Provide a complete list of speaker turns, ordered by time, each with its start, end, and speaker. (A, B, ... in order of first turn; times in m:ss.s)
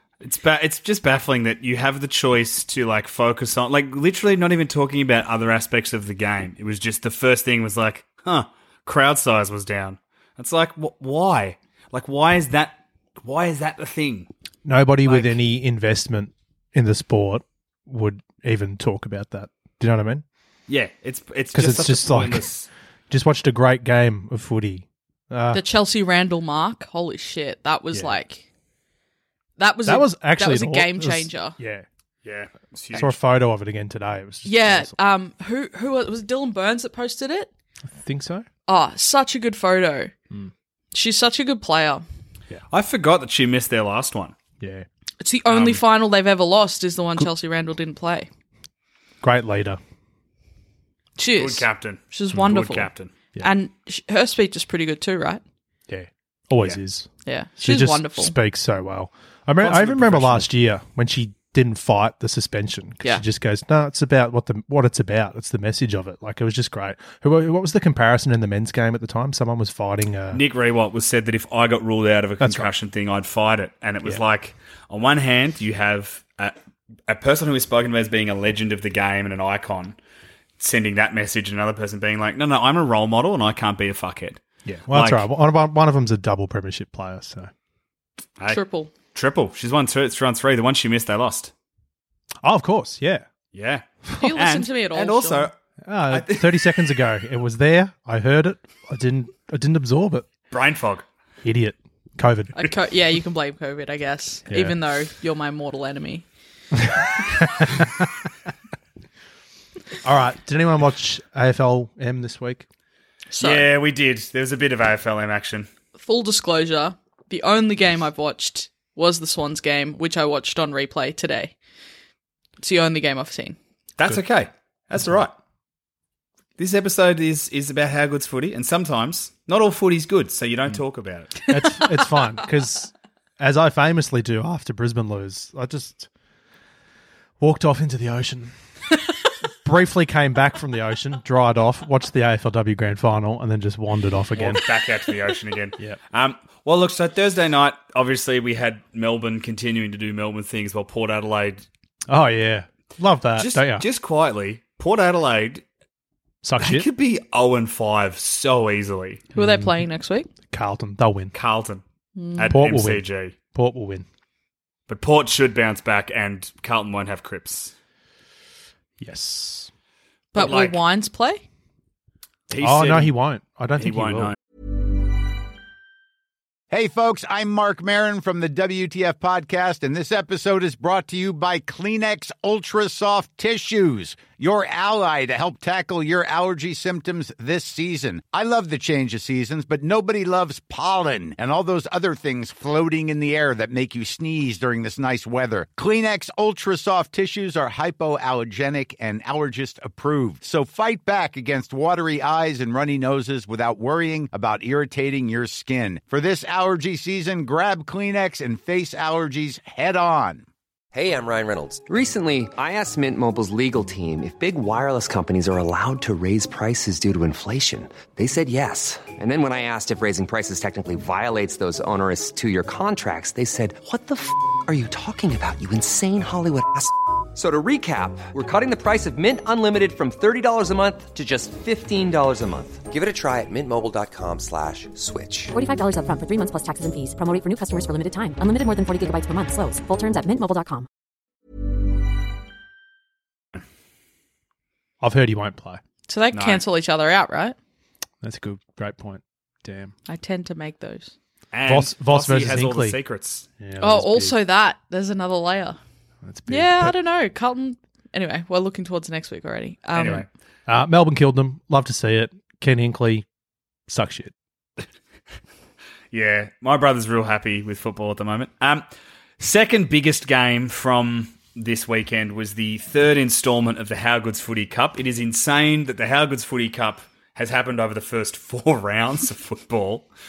0:00.2-0:14.3 A
0:14.6-0:20.2 B
0:15.0-0:15.4 A
0:20.7-0:22.7 A
0:21.5-0:22.5 B
0:23.1-0:25.6 B
0:25.5-0:28.4 C
0:29.6-0:31.6 C
0:29.8-0:31.8 B
0:32.2-0:33.2 A
0:32.9-0:34.9 B
0:34.4-0:37.5 C
0:37.9-0:38.4 B
0:38.7-0:40.1 C
0:40.9-0:42.0 C
0:42.7-0:44.3 A
0:44.6-0:44.9 B
0:45.2-0:48.3 C
0:45.5-0:45.8 A
0:49.2-0:49.8 B
0:51.2-0:55.4 C
0:51.4-0:53.1 A
0:55.9-0:57.1 B
0:57.2-0:58.3 C
0:57.6-1:10.4 B
0:59.6-1:00.5 A
1:10.3-1:16.5 A
1:12.4-1:12.7 B
1:17.1-1:20.0 A
1:20.6-1:25.2 A
1:24.6-1:27.5 B
1:28.5-1:28.9 C
1:29.1-1:31.5 A
1:32.4-1:33.2 B
1:33.5-1:35.5 A
1:34.2-1:35.5 C
1:35.8-1:40.3 B
1:36.1-1:36.7 A
1:40.5-1:41.0 A
1:41.4-1:42.5 B
1:42.5-1:46.2 C
1:44.5-1:44.8 B
1:46.8-1:48.1 B
1:50.0-1:52.6 B
1:53.3-1:53.7 C
1:53.4-1:55.7 A
1:56.0-2:01.5 C
2:02.6-2:03.6 C
2:04.0-2:05.3 A
2:06.6-2:11.4 A
2:11.5-2:16.1 B
2:17.4-2:18.5 B
2:19.6-2:24.6 B
2:24.4-2:31.6 A
2:32.1-2:33.9 B
2:33.4-2:35.6 A
2:36.4-2:36.9 B
2:36.6-2:39.2 A
2:39.3-2:39.8 B
2:39.3-2:40.3 C
2:40.5-2:41.3 B
2:41.3-2:41.8 A
2:42.2-2:42.5 C
2:42.4-2:43.3 A
2:42.5-2:44.0 B
2:44.9-2:47.7 A
2:49.0-2:49.7 B
2:50.3-2:51.4 C
2:50.3-2:50.8 A
2:52.5-2:53.1 A
2:52.6-2:54.3 B
2:53.8-2:54.4 A
2:56.7-3:30.4 D
3:30.9-3:55.5 E
3:55.5-4:00.9 F
4:05.0-4:05.8 B
4:06.1-4:07.6 C
4:06.3-4:06.6 A
4:08.2-4:09.9 B
4:10.1-4:11.1 C
4:11.5-4:13.4 A
4:11.6-4:13.0 B
4:13.6-4:14.4 B
4:13.8-4:15.8 C
4:16.2-4:16.9 B
4:16.5-4:20.3 C
4:19.9-4:20.3 A
4:20.7-4:23.2 B
4:23.9-4:24.3 B
4:26.1-4:28.8 A
4:29.4-4:40.1 A